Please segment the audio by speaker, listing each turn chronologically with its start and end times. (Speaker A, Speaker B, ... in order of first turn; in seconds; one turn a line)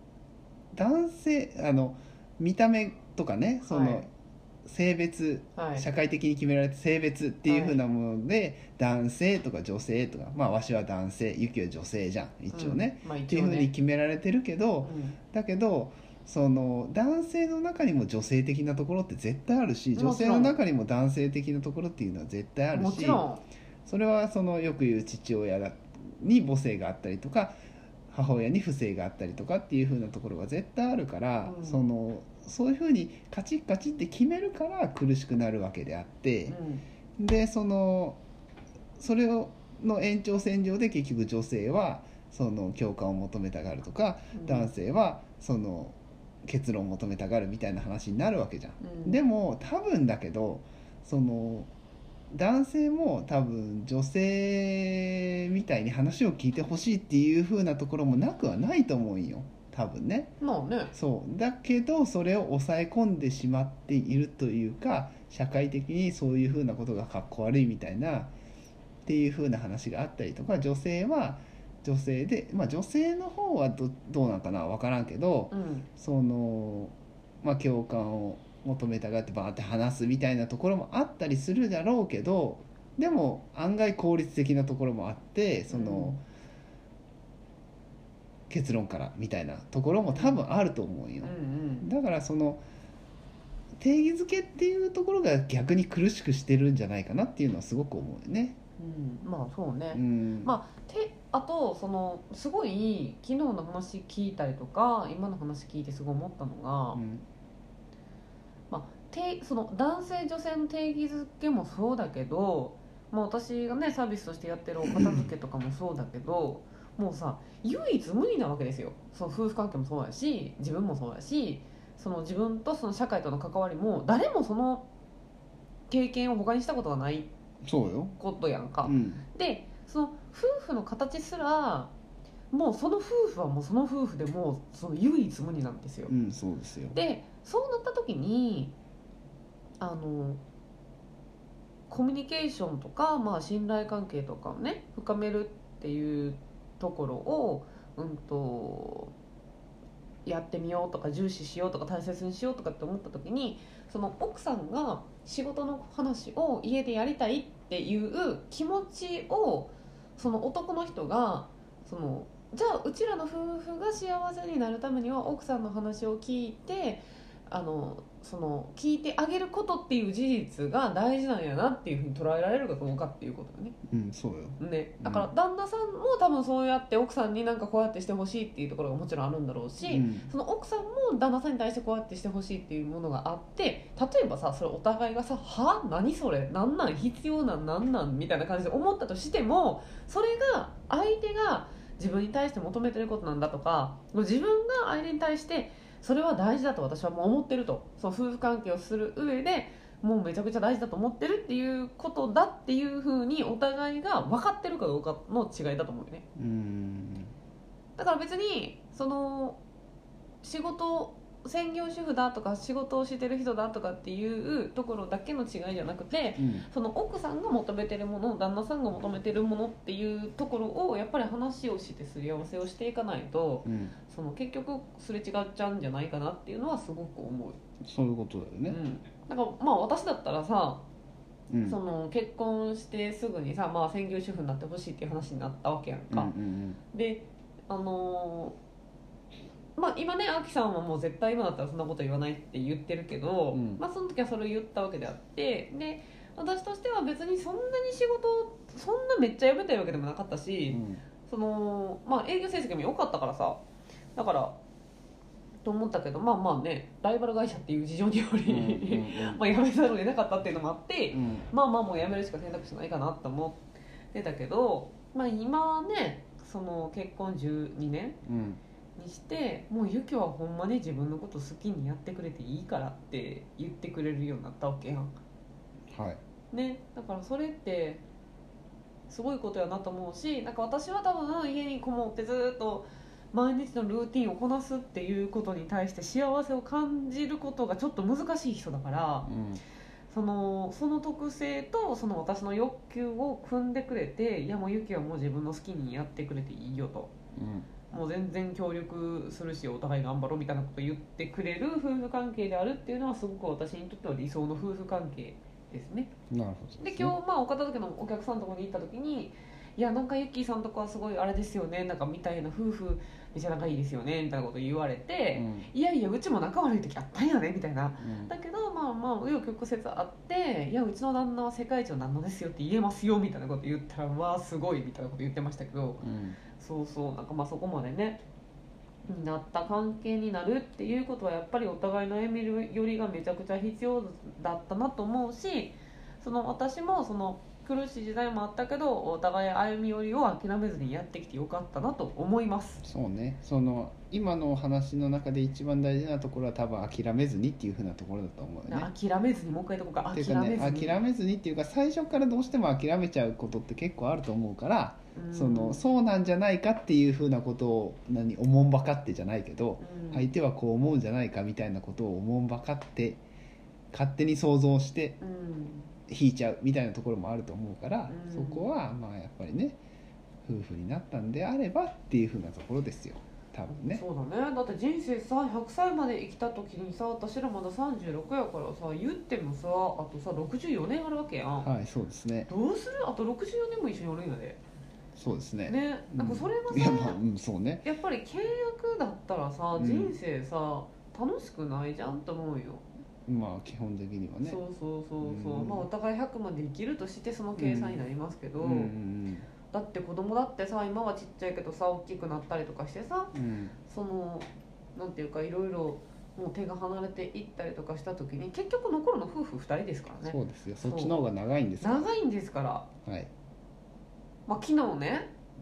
Speaker A: 0.7-4.1
Speaker B: 3.7-4.1
Speaker A: 4.7-23.2
Speaker B: 5.6-5.9
Speaker B: 7.5-7.8
Speaker B: 12.5-13.7
Speaker B: 14.8-15.2
Speaker B: 19.9-20.6
Speaker B: 22.7-23.4
Speaker A: 23.9-27.6
Speaker A: 28.1-36.6
Speaker B: 31.4-31.8
Speaker B: 36.5-36.9
Speaker A: 37.2-38.2
Speaker A: 39.0-51.7
Speaker B: 44.3-44.7
Speaker B: 48.8-49.2
Speaker A: 52.3-60.4
Speaker B: 60.4-60.9
Speaker A: 60.9-68.3
Speaker A: 69.1-86.2
Speaker B: 75.5-75.9
Speaker B: 85.7-86.2
Speaker A: 88.5-92.6
Speaker B: 90.1-90.4
Speaker B: 91.2-91.9
Speaker A: 93.8-98.6
Speaker B: 98.8-107.0
Speaker A: 99.9-100.6
Speaker A: 106.9-107.3
Speaker B: 108.7-124.9
Speaker B: 125.9-127.3
Speaker A: 127.6-128.2
Speaker B: 128.2-131.9
Speaker A: 128.8-129.2
Speaker B: 132.5-136.2
Speaker A: 136.1-137.0
Speaker B: 136.9-138.8
Speaker B: 139.8-140.4
Speaker B: 141.9-149.1
Speaker B: 150.2-173.8
Speaker A: 173.9-175.3
Speaker B: 174.6-206.2
Speaker A: 179.8-180.3
Speaker A: 206.4-207.3
Speaker B: 208.0-209.6
Speaker B: 210.4-227.6
Speaker A: 216.4-216.7
Speaker A: 223.6-223.9
Speaker A: 227.8-228.8
Speaker B: 228.7-230.9
Speaker A: 231.5-231.8
Speaker B: 231.7-236.3
Speaker A: 236.1-236.8
Speaker B: 236.9-238.6
Speaker B: 239.8-253.6
Speaker A: 243.5-243.8
Speaker A: 250.7-251.0
Speaker B: 254.2-254.6
Speaker B: 255.6-268.2
Speaker A: 258.4-259.4
Speaker A: 261.1-261.5
Speaker A: 268.2-268.6
Speaker B: 269.0-275.1
Speaker A: 275.9-276.2
Speaker B: 276.5-278.0
Speaker B: 279.1-289.3
Speaker A: 289.2-289.6
Speaker B: 290.1-297.1
Speaker A: 297.3-297.7
Speaker B: 297.9-306.1
Speaker A: 306.3-307.2
Speaker B: 306.8-328.2
Speaker A: 315.3-315.7
Speaker A: 318.0-318.3
Speaker A: 326.0-326.4
Speaker B: 329.1-342.9
Speaker A: 342.8-348.9
Speaker B: 348.7-351.0
Speaker A: 350.1-363.2
Speaker B: 355.1-355.8
Speaker B: 359.8-360.3
Speaker A: 363.9-365.2
Speaker B: 365.2-365.9
Speaker A: 366.1-369.8
Speaker B: 368.1-368.7
Speaker A: 370.4-374.0
Speaker B: 373.7-381.7
Speaker A: 381.6-382.5
Speaker B: 382.5-384.6
Speaker A: 385.1-387.9
Speaker B: 385.7-387.2
Speaker B: 387.8-392.9
Speaker A: 389.8-390.2
Speaker A: 393.3-394.6
Speaker B: 394.4-398.9
Speaker A: 395.2-395.9
Speaker A: 397.6-398.0
Speaker A: 398.6-399.5
Speaker B: 399.7-403.3
Speaker A: 403.3-403.8
Speaker B: 403.9-411.2
Speaker A: 410.2-412.1
Speaker B: 411.8-412.9
Speaker A: 413.0-413.3
Speaker B: 414.5-415.3